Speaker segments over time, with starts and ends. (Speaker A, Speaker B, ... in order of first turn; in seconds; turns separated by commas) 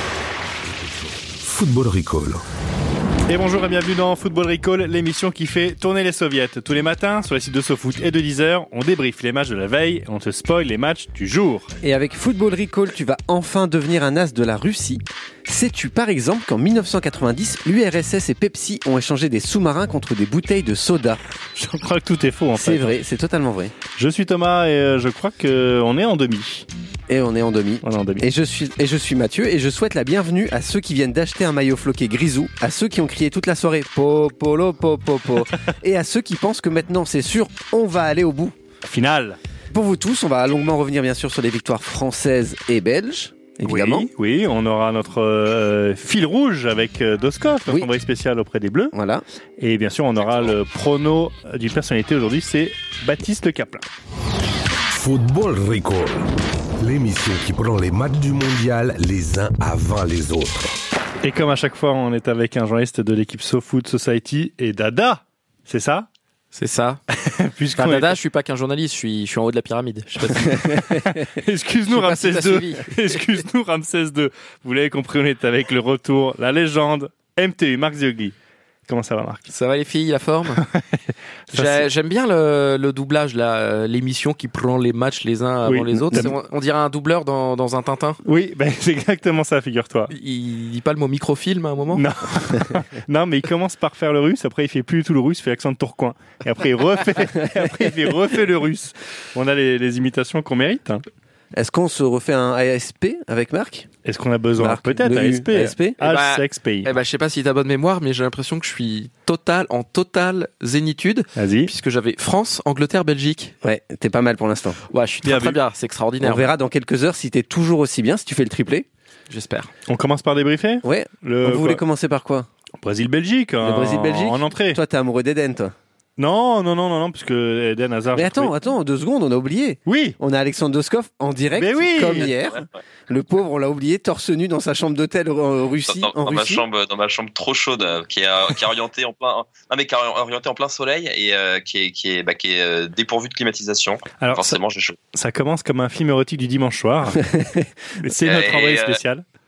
Speaker A: 0.7-2.4, Speaker B: 3.3-11.7, Speaker C: 11.8-21.2, Speaker B: 21.6-22.9, Speaker C: 22.6-23.7, Speaker B: 23.9-26.6, Speaker C: 27.1-38.5, Speaker B: 27.8-28.2, Speaker B: 38.8-39.4, Speaker C: 39.7-44.1, Speaker B: 43.6-48.9, Speaker C: 48.9-49.2, Speaker B: 49.6-53.8, Speaker A: 54.9-60.7, Speaker B: 61.2-66.1, Speaker D: 66.5-67.0, Speaker B: 67.2-68.2, Speaker D: 67.8-70.7, Speaker B: 70.2-78.3, Speaker D: 71.9-73.1, Speaker B: 78.9-79.5, Speaker D: 79.5-80.6, Speaker B: 80.6-81.0, Speaker B: 81.5-81.9, Speaker D: 81.5-88.2, Speaker B: 85.6-86.3, Speaker C: 86.0-86.3, Speaker B: 88.2-90.1, Speaker D: 90.1-92.0, Speaker B: 91.9-101.0, Speaker C: 101.5-103.9, Speaker B: 104.0-106.9, Speaker C: 104.5-106.0, Speaker D: 106.0-113.5, Speaker B: 111.3-111.7, Speaker C: 113.6-114.8, Speaker D: 114.9-116.5, Speaker B: 115.2-115.6, Speaker C: 116.2-118.9, Speaker D: 119.3-119.7, Speaker B: 119.9-121.8, Speaker C: 120.8-122.5, Speaker B: 122.8-124.8, Speaker C: 123.6-125.7, Speaker B: 126.2-128.5, Speaker C: 128.1-136.6, Speaker B: 129.9-130.2, Speaker B: 131.5-132.3, Speaker E: 132.2-132.6, Speaker E: 135.9-144.9, Speaker B: 144.2-144.6, Speaker B: 145.1-147.3, Speaker C: 147.3-147.6, Speaker B: 148.0-149.2, Speaker E: 148.2-149.0